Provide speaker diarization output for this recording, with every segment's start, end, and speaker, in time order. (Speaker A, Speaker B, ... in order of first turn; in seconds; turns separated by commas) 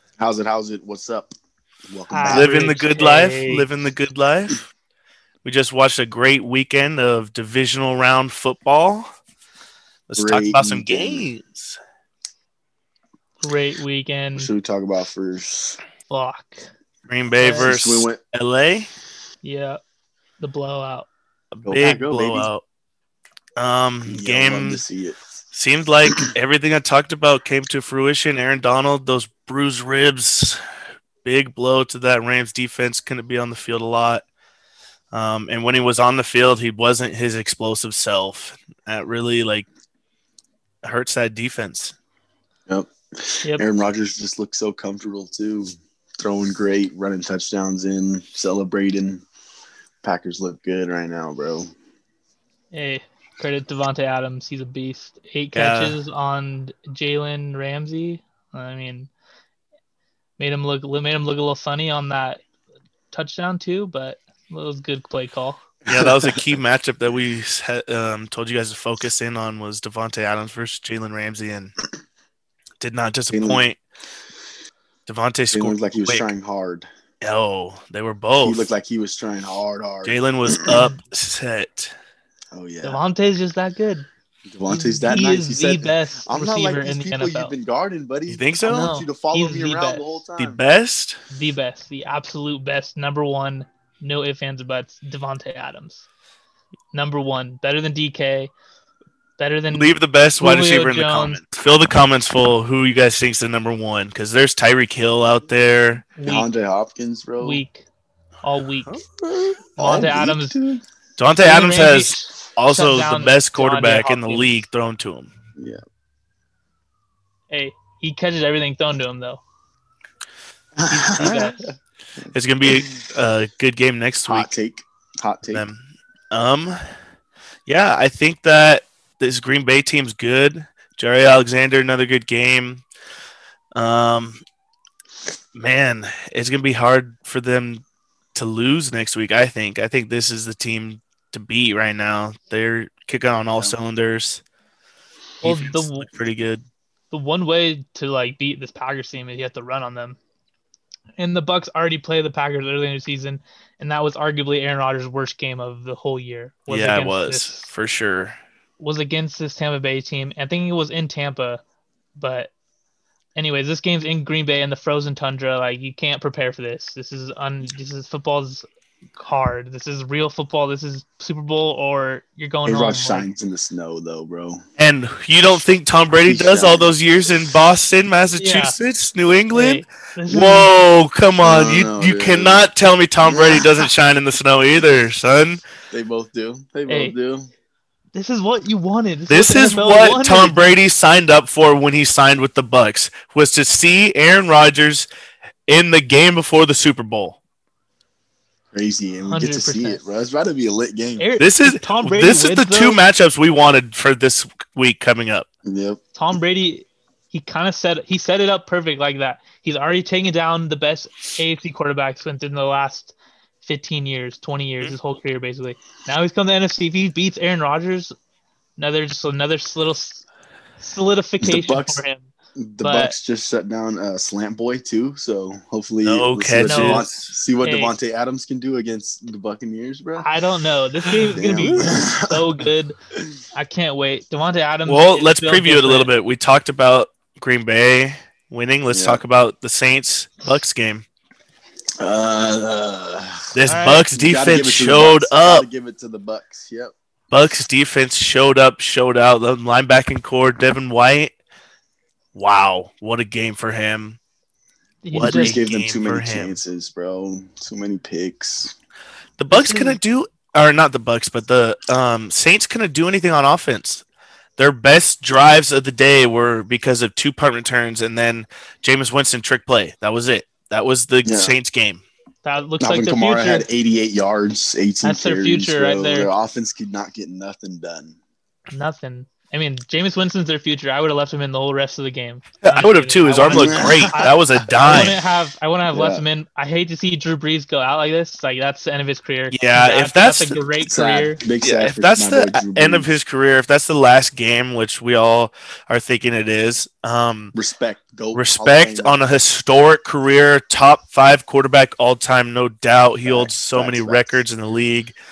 Speaker A: 0.2-1.3, Speaker A: 1.9-2.5, Speaker B: 2.1-3.7, Speaker C: 2.3-4.6, Speaker C: 5.4-9.1, Speaker C: 10.1-11.8, Speaker A: 10.2-11.3, Speaker B: 13.4-14.5, Speaker A: 14.3-15.8, Speaker B: 16.1-16.7, Speaker C: 17.1-18.9, Speaker B: 17.4-17.7, Speaker A: 17.6-18.2, Speaker B: 19.4-19.8, Speaker B: 20.4-21.1, Speaker C: 21.5-22.6, Speaker A: 21.6-22.5, Speaker C: 23.6-24.8, Speaker A: 24.1-25.2, Speaker C: 25.5-30.6, Speaker C: 31.2-34.2, Speaker C: 35.1-39.6, Speaker C: 40.8-41.9, Speaker A: 42.7-49.2, Speaker A: 50.0-51.7, Speaker B: 52.7-59.1, Speaker C: 55.5-56.0, Speaker B: 60.4-62.4, Speaker B: 63.1-65.6, Speaker C: 65.8-71.7, Speaker A: 65.9-66.4, Speaker C: 72.8-73.8, Speaker A: 73.3-73.6, Speaker C: 75.0-76.3, Speaker A: 75.5-76.9, Speaker C: 77.2-78.7, Speaker A: 78.4-80.8, Speaker C: 80.0-81.9, Speaker A: 82.5-83.0, Speaker B: 82.8-84.1, Speaker A: 84.5-90.6, Speaker B: 84.7-87.5, Speaker C: 88.3-88.9, Speaker B: 88.6-90.2, Speaker C: 90.4-91.2, Speaker B: 91.3-96.0, Speaker B: 96.9-98.5, Speaker B: 99.4-101.4, Speaker C: 99.7-106.0, Speaker B: 106.2-106.5, Speaker A: 106.2-107.6, Speaker B: 107.4-107.8, Speaker B: 108.4-109.0, Speaker A: 109.2-110.8, Speaker B: 109.8-110.6, Speaker C: 111.2-115.3, Speaker B: 111.4-114.6, Speaker B: 117.5-119.4, Speaker A: 120.8-121.7, Speaker B: 120.9-121.7, Speaker C: 121.2-121.5, Speaker C: 122.3-124.5, Speaker A: 124.2-125.7, Speaker C: 125.5-126.8, Speaker C: 127.7-132.8, Speaker C: 133.7-134.4, Speaker C: 135.5-144.4, Speaker B: 145.4-146.2, Speaker C: 145.4-146.6, Speaker B: 147.1-150.2, Speaker B: 151.2-157.7, Speaker C: 156.7-158.4, Speaker B: 158.8-161.6, Speaker B: 162.2-162.5, Speaker B: 163.3-168.7, Speaker B: 169.2-173.3, Speaker A: 172.6-174.6, Speaker C: 174.8-185.6, Speaker A: 176.2-177.0, Speaker B: 178.4-178.8, Speaker B: 179.5-180.7, Speaker A: 181.4-182.7, Speaker A: 183.2-183.8, Speaker A: 185.9-187.5, Speaker B: 186.9-187.1, Speaker B: 188.1-190.7, Speaker C: 189.3-195.1, Speaker C: 195.7-197.4, Speaker A: 198.7-201.3, Speaker B: 199.3-200.0, Speaker B: 201.2-203.0, Speaker C: 201.4-205.5, Speaker A: 205.6-206.0, Speaker B: 206.1-218.1, Speaker B: 218.8-220.2, Speaker B: 220.8-222.3, Speaker A: 221.4-222.0, Speaker A: 222.6-230.3, Speaker B: 222.8-223.1, Speaker C: 226.0-227.3, Speaker B: 226.6-227.1, Speaker B: 227.6-227.9, Speaker B: 230.2-232.9, Speaker A: 231.3-232.6, Speaker C: 231.6-231.9, Speaker B: 233.5-236.1, Speaker C: 234.8-241.1, Speaker A: 238.9-239.2, Speaker A: 242.0-243.5, Speaker C: 243.5-245.7, Speaker B: 243.6-244.1, Speaker A: 244.1-246.9, Speaker C: 247.3-251.3, Speaker C: 252.3-254.2, Speaker B: 255.0-255.6, Speaker C: 255.1-256.6, Speaker A: 255.2-258.7, Speaker C: 259.4-264.0, Speaker B: 259.5-260.0, Speaker C: 264.6-272.0, Speaker A: 271.2-271.6, Speaker B: 272.4-273.7, Speaker A: 272.8-278.2, Speaker B: 275.0-276.3, Speaker B: 278.7-291.4, Speaker C: 282.6-285.2, Speaker A: 283.5-284.3, Speaker A: 285.9-286.2, Speaker C: 289.5-290.6, Speaker A: 290.8-293.1, Speaker C: 291.6-297.5, Speaker A: 297.5-299.2, Speaker C: 298.3-305.1, Speaker A: 303.2-304.4